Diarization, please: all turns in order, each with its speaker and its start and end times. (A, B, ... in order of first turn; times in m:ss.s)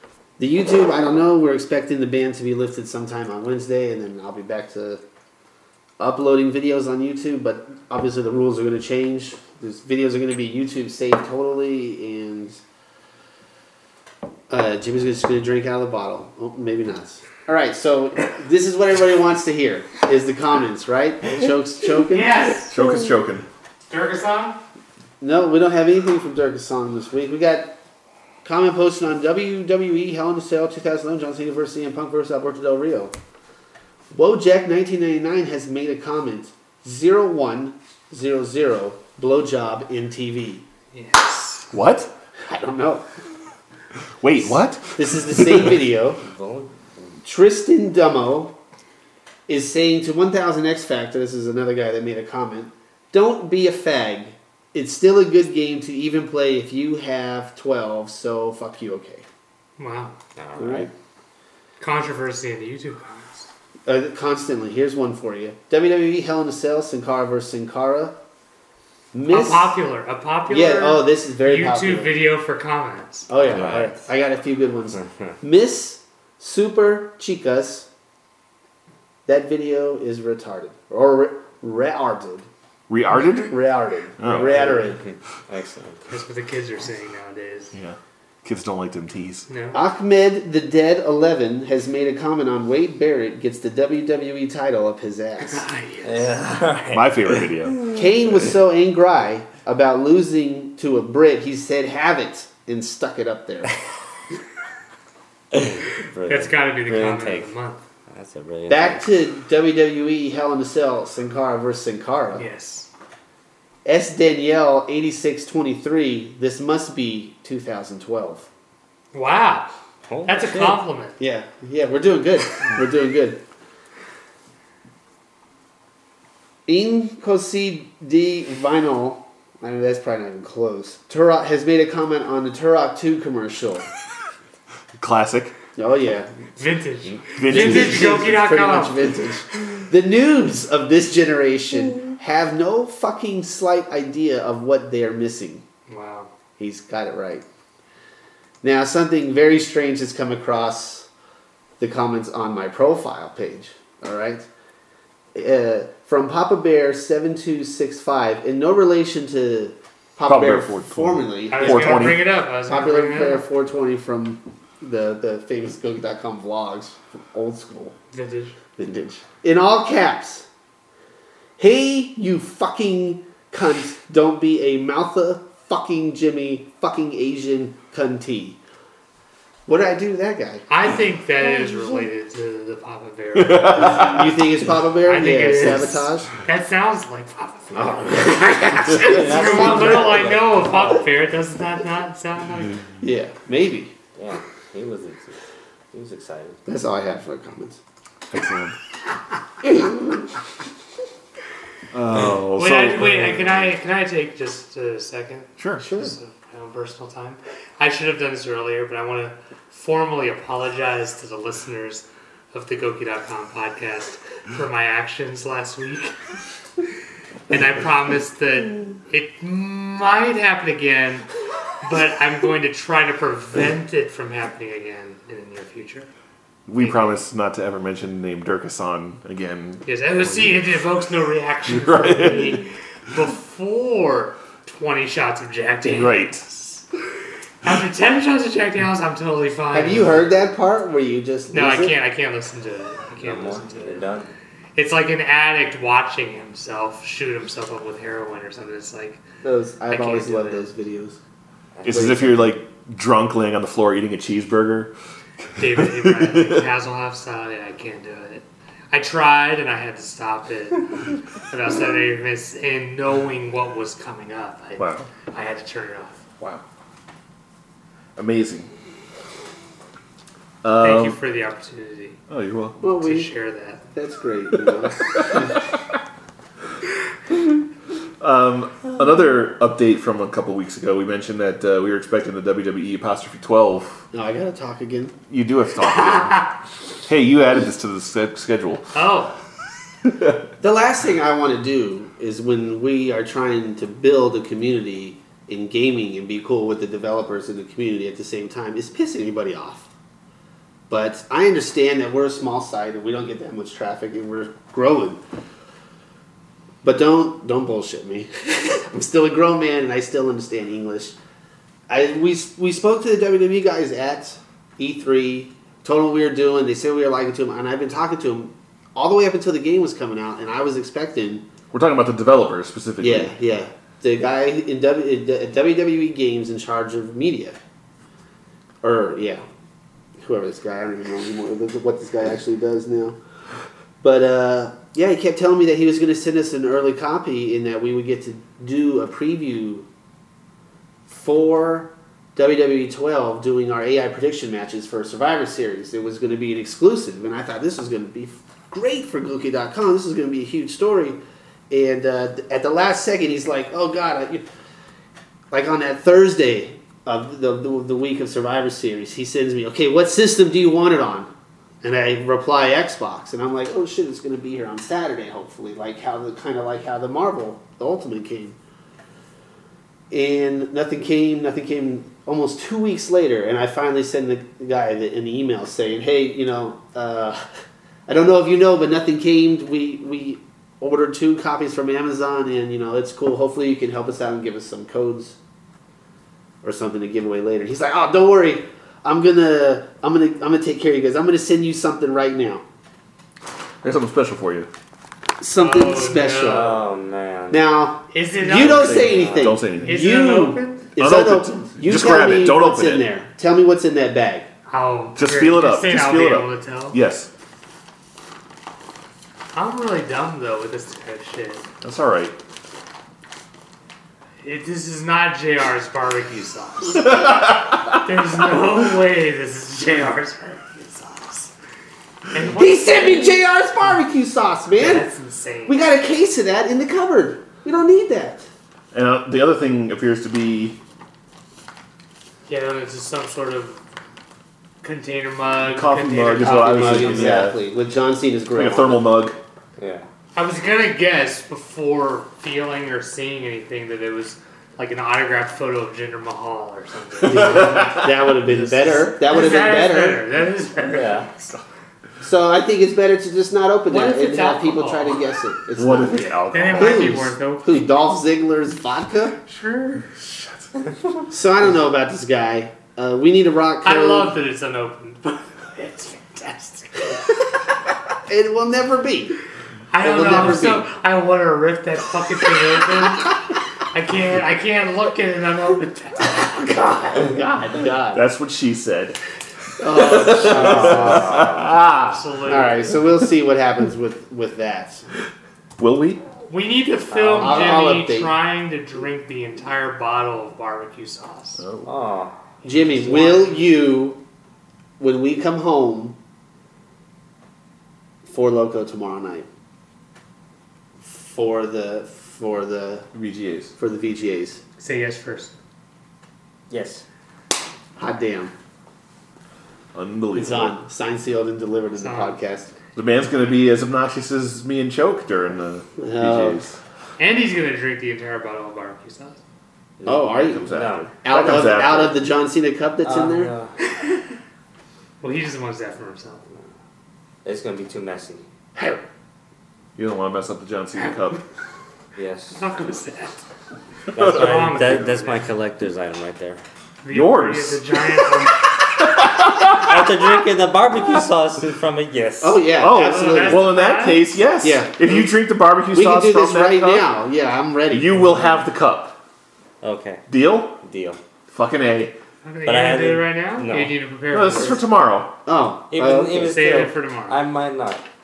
0:00.4-0:05.0 A
0:06.0-0:12.6 A
0:14.5-0:22.6 A
0:22.1-0:22.8 B
0:22.7-0:23.5 C
0:23.9-0:24.6 B
0:25.2-0:27.8 A
0:28.4-0:33.1 A
0:34.1-0:40.6 A
0:40.9-0:41.7 B
0:41.7-0:42.1 C
0:42.4-0:43.0 A
0:44.2-0:45.8 C
0:45.0-0:46.2 A
0:46.2-0:47.2 D
0:47.2-0:48.6 A
0:49.5-0:59.3 A
0:59.8-1:00.2 B
1:00.4-1:00.9 D
1:00.6-1:00.9 A
1:01.8-1:03.5 B
1:03.9-1:08.2 A
1:09.1-1:09.8 A
1:09.3-1:13.3 B
1:10.5-1:12.2 A
1:13.3-1:17.9 A
1:13.4-1:13.7 D
1:13.5-1:13.9 C
1:19.3-1:22.5 A
1:22.9-1:23.6 C
1:23.3-1:25.0 A
1:24.2-1:24.8 C
1:24.3-1:26.1 D
1:26.1-1:27.7 B
1:27.7-1:29.5 C
1:29.5-1:29.8 B
1:29.7-1:35.6 A
1:35.4-1:36.3 B
1:36.0-1:37.5 D
1:36.9-1:37.8 C
1:37.9-1:43.8 A
1:45.5-1:47.5 D
1:46.3-1:47.8 B
1:48.1-1:49.1 D
1:48.7-1:52.4 A
1:52.4-1:52.9 B
1:53.8-1:58.5 A
1:59.1-1:59.7 B
2:00.1-2:00.8 D
2:00.2-2:01.2 B
2:01.2-2:03.4 A
2:06.7-2:13.9 A
2:15.0-2:15.5 C
2:15.8-2:16.3 A
2:16.6-2:19.1 B
2:17.4-2:18.1 C
2:17.5-2:25.6 A
2:25.9-2:26.3 B
2:26.6-2:27.4 A
2:28.6-2:31.1 A
2:31.8-2:34.5 A
2:35.3-2:48.0 A
2:40.3-2:42.2 C
2:41.5-2:43.4 B
2:48.1-2:48.6 B
2:48.8-2:50.5 A
2:51.6-2:58.6 A
2:59.7-3:00.7 A
3:00.7-3:04.2 B
3:03.4-3:04.3 C
3:03.8-3:06.3 A
3:05.0-3:12.8 B
3:07.7-3:10.3 A
3:08.9-3:11.0 D
3:13.0-3:13.9 A
3:14.2-3:15.4 D
3:15.9-3:16.6 D
3:16.7-3:17.8 A
3:18.3-3:18.8 C
3:21.9-3:23.5 C
3:22.3-3:36.2 B
3:25.6-3:25.9 C
3:25.8-3:26.1 A
3:37.5-3:41.3 B
3:41.8-3:46.1 B
3:46.7-3:50.6 C
3:46.8-3:47.2 B
3:49.8-3:56.8 B
3:51.7-3:52.6 C
3:55.8-3:56.5 C
3:57.6-4:00.2 B
3:59.7-4:02.0 A
4:01.5-4:04.1 B
4:03.2-4:04.3 D
4:04.8-4:09.2 B
4:09.4-4:11.2 A
4:09.9-4:10.7 B
4:11.8-4:12.3 D
4:11.8-4:14.9 C
4:11.9-4:12.3 A
4:15.6-4:16.6 C
4:15.6-4:26.2 B
4:24.8-4:25.1 C
4:28.2-4:28.7 C
4:30.6-4:31.2 C
4:30.8-4:32.2 B
4:32.3-4:32.8 C
4:32.8-4:33.3 A
4:33.0-4:33.8 B
4:33.9-4:35.6 A
4:35.1-4:35.5 C
4:38.2-4:44.0 C
4:44.1-4:45.2 A
4:45.3-4:46.5 C
4:47.1-4:49.0 C
4:48.9-4:49.4 B
4:50.1-4:50.4 C
4:50.6-4:59.9 A
5:00.9-5:05.2 A
5:06.8-5:11.2 A
5:11.9-5:21.5 A
5:21.7-5:23.4 C
5:23.0-5:27.6 A
5:28.8-5:29.4 A
5:30.2-5:33.2 A
5:34.0-5:39.9 A
5:41.1-5:51.2 A
5:51.7-5:54.4 A
5:55.5-6:01.3 A
6:01.8-6:08.6 A
6:10.1-6:17.4 A
6:18.1-6:25.4 A
6:26.6-6:32.6 A
6:33.8-6:34.7 C
6:35.4-6:36.8 A
6:35.6-6:36.8 B
6:36.4-6:37.6 D
6:37.5-6:44.5 A
6:38.1-6:39.3 B
6:38.5-6:40.1 C
6:38.6-6:39.6 D
6:39.8-6:40.9 B
6:41.0-6:43.1 C
6:44.7-6:47.0 B
6:45.2-6:47.3 C
6:49.5-6:51.6 B
6:51.8-6:52.4 C
6:54.4-7:01.5 B
6:57.1-6:58.0 C
7:02.3-7:03.6 B
7:02.5-7:05.1 A
7:04.8-7:05.9 B
7:05.7-7:08.5 A
7:08.9-7:10.8 C
7:12.5-7:13.8 B
7:14.8-7:17.5 B
7:15.6-7:17.6 C
7:16.4-7:19.1 A
7:18.5-7:19.4 C
7:19.8-7:20.1 D
7:20.4-7:31.6 B
7:27.3-7:28.0 C
7:27.3-7:30.2 A
7:30.9-7:31.3 D
7:32.2-7:39.4 A
7:33.9-7:35.4 B
7:35.8-7:37.3 C
7:36.5-7:37.8 B
7:39.5-7:40.1 B
7:40.1-7:40.7 C
7:41.3-7:44.4 A
7:43.8-7:47.2 B
7:48.3-7:49.4 A
7:49.9-7:56.9 B
7:50.0-7:50.8 A
7:57.0-7:58.2 A
7:58.1-7:59.2 C
7:59.8-8:01.6 A
7:59.8-8:02.2 C
8:00.3-8:01.7 D
8:01.8-8:03.1 B
8:02.5-8:05.0 A
8:05.8-8:06.2 C
8:06.5-8:11.6 B
8:07.1-8:07.9 D
8:07.4-8:08.4 A
8:11.6-8:11.9 C
8:11.8-8:12.4 D
8:12.6-8:13.7 B
8:12.6-8:14.2 A
8:15.0-8:16.2 A
8:18.2-8:19.5 A
8:21.0-8:23.1 A
8:23.1-8:23.7 C
8:23.8-8:24.6 A
8:24.8-8:25.6 B
8:26.7-8:27.0 D
8:28.0-8:28.5 A
8:29.9-8:30.8 C
8:30.4-8:32.7 A
8:32.0-8:32.4 B
8:33.0-8:36.8 C
8:36.0-8:36.6 A
8:37.2-8:39.4 B
8:40.0-8:41.1 D
8:40.1-8:40.7 A
8:40.5-8:42.2 C
8:41.2-8:43.5 A
8:43.0-8:43.7 D
8:43.8-8:44.2 B
8:45.2-8:46.4 B
8:47.4-8:48.5 D
8:48.8-8:49.0 A
8:50.0-8:51.4 C
8:52.2-8:52.6 D
8:52.5-8:53.4 B
8:54.1-8:56.6 D
8:54.2-8:54.9 C
8:54.2-8:55.5 B
8:57.0-8:58.7 B
8:57.1-8:58.0 C
8:58.8-9:00.3 C
8:59.8-9:02.7 D
9:02.4-9:03.7 A
9:02.8-9:07.1 C
9:03.0-9:04.3 B
9:04.6-9:05.3 A
9:05.9-9:08.6 A
9:07.9-9:09.2 C
9:09.8-9:10.2 D
9:10.3-9:10.8 C
9:10.8-9:11.2 D
9:11.5-9:12.2 C
9:12.4-9:14.8 B
9:12.6-9:14.0 D
9:14.3-9:15.4 C
9:15.5-9:16.6 A
9:15.9-9:18.0 D
9:16.3-9:17.4 B